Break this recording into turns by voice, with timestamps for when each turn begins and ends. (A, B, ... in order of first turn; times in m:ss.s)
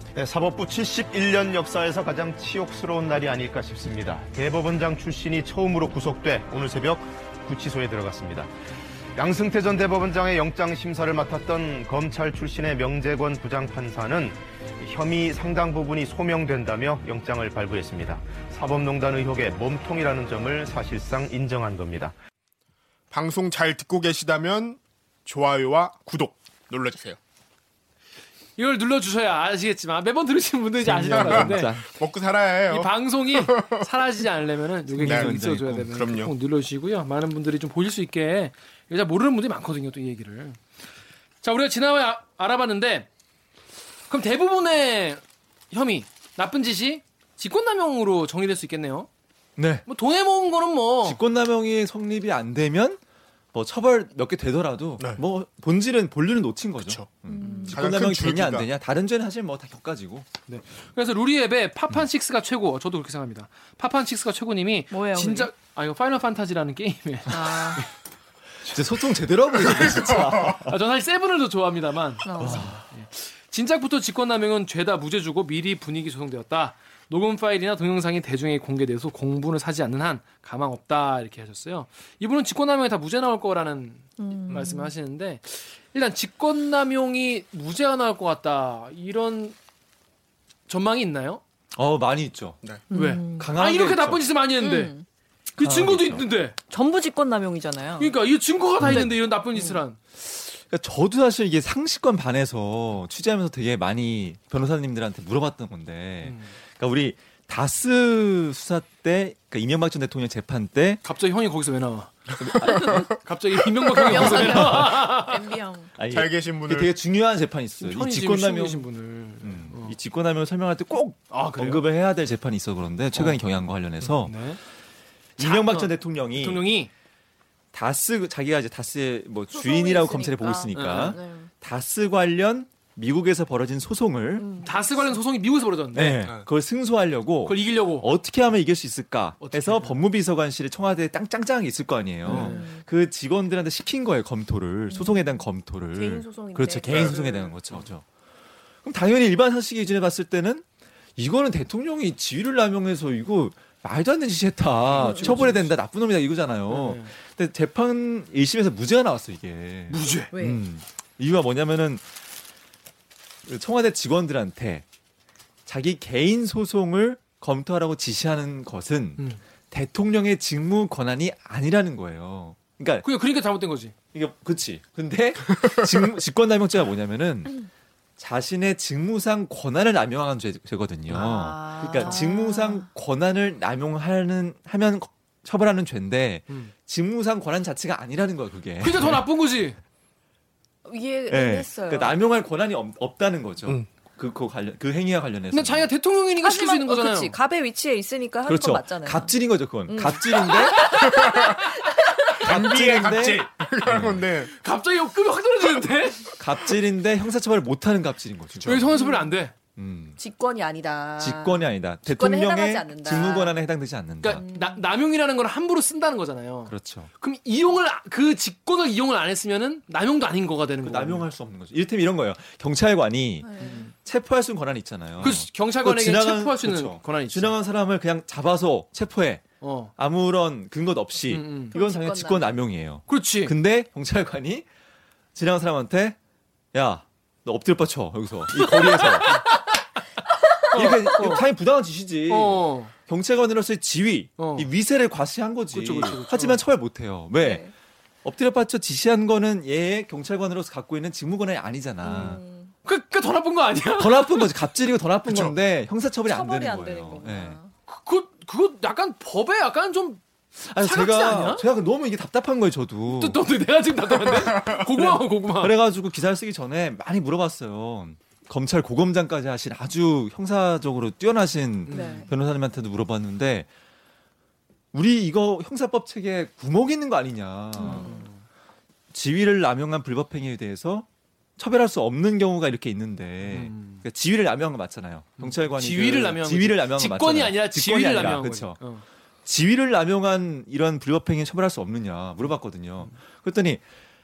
0:00.1-0:08.5 A
0:09.2-0:22.1 A
0:23.1-0:27.2 B
0:28.6-0:31.8 C
0:30.8-0:31.9 D
0:31.1-0:33.8 B
0:32.6-0:40.6 C
0:34.9-0:35.9 D
0:35.0-0:36.3 B
0:41.4-0:43.1 C
0:44.1-0:49.1 C
0:49.6-0:49.8 D
0:49.9-0:51.2 C
0:51.0-0:53.0 D
0:53.5-1:00.3 D
0:56.8-0:57.1 B
0:57.3-0:57.8 E
0:57.7-0:58.7 B
1:00.5-1:07.8 C
1:04.9-1:05.5 E
1:07.3-1:07.8 E
1:08.6-1:10.8 D
1:09.9-1:10.3 B
1:10.5-1:29.5 C
1:12.2-1:12.7 E
1:12.3-1:12.8 D
1:24.2-1:24.9 E
1:30.7-1:31.4 C
1:31.8-1:32.6 D
1:32.9-1:33.5 E
1:32.9-1:34.9 C
1:33.3-1:34.2 D
1:34.6-1:35.0 E
1:35.6-1:36.6 C
1:35.6-1:36.2 D
1:36.7-1:38.1 E
1:38.0-1:40.0 C
1:38.8-1:39.1 D
1:38.9-1:39.8 E
1:40.2-1:51.0 D
1:46.2-1:46.5 C
1:51.0-1:55.6 C
1:52.4-1:52.9 D
1:52.6-1:53.0 B
1:53.8-1:54.1 B
1:54.0-1:55.9 E
1:54.2-1:55.0 D
1:56.0-1:58.9 D
1:56.1-1:56.9 B
1:57.8-2:00.0 C
1:59.4-2:04.4 D
2:01.3-2:01.8 C
2:04.0-2:04.6 C
2:05.4-2:06.6 D
2:05.4-2:06.9 C
2:07.7-2:14.5 D
2:09.5-2:11.5 E
2:10.7-2:11.2 C
2:14.4-2:14.7 E
2:14.6-2:16.3 C
2:15.9-2:28.0 D
2:17.4-2:18.1 C
2:19.4-2:20.0 C
2:22.2-2:22.7 C
2:22.2-2:22.8 E
2:24.9-2:25.3 E
2:25.9-2:27.2 E
2:26.9-2:27.5 B
2:28.8-2:30.6 D
2:31.2-2:42.0 D
2:34.9-2:35.7 C
2:35.0-2:35.5 E
2:36.7-2:37.1 C
2:39.9-2:40.3 C
2:40.1-2:40.6 E
2:43.5-2:44.8 D
2:45.6-2:53.1 D
2:53.0-2:53.9 C
2:54.1-2:57.6 D
2:58.2-3:09.2 D
3:01.1-3:02.8 E
3:01.8-3:02.2 C
3:08.8-3:09.8 C
3:10.8-3:12.2 E
3:11.3-3:15.9 D
3:15.5-3:17.3 C
3:16.4-3:19.4 E
3:18.4-3:20.9 D
3:19.9-3:22.4 E
3:20.5-3:21.5 C
3:21.0-3:21.6 B
3:22.4-3:24.2 D
3:22.4-3:24.5 B
3:24.5-3:26.6 C
3:26.4-3:29.0 D
3:28.6-3:29.5 C
3:28.9-3:29.3 E
3:29.8-3:30.2 D
3:30.2-3:33.5 E
3:31.2-3:34.4 D
3:34.2-3:41.3 C
3:34.3-3:34.8 E
3:36.7-3:37.1 D
3:40.8-3:49.4 D
3:43.4-3:43.9 E
3:43.6-3:43.9 C
3:45.2-3:47.5 C
3:49.6-3:49.9 C
3:50.0-3:54.6 D
3:51.3-3:51.8 C
3:51.7-3:52.4 E
3:53.1-3:53.5 C
3:55.3-3:56.2 D
3:56.7-3:59.4 D
3:58.6-3:59.6 C
4:00.7-4:01.4 C
4:00.7-4:07.6 D
4:02.3-4:02.9 C
4:04.4-4:04.7 C
4:05.7-4:06.6 C
4:07.4-4:07.7 E
4:08.2-4:12.4 D
4:12.0-4:12.7 E
4:12.8-4:14.5 C
4:13.9-4:17.6 D
4:15.3-4:15.5 B
4:16.2-4:17.7 E
4:17.9-4:20.2 C
4:20.6-4:23.4 D
4:20.8-4:21.7 C
4:23.1-4:25.7 C
4:24.5-4:33.7 D
4:31.8-4:32.3 C
4:31.9-4:32.3 E
4:34.9-4:38.1 D
4:37.8-4:38.3 E
4:37.8-4:38.4 C
4:39.1-4:41.1 D
4:41.6-4:48.8 D
4:43.4-4:44.0 C
4:45.4-4:49.0 C
4:49.4-4:53.8 D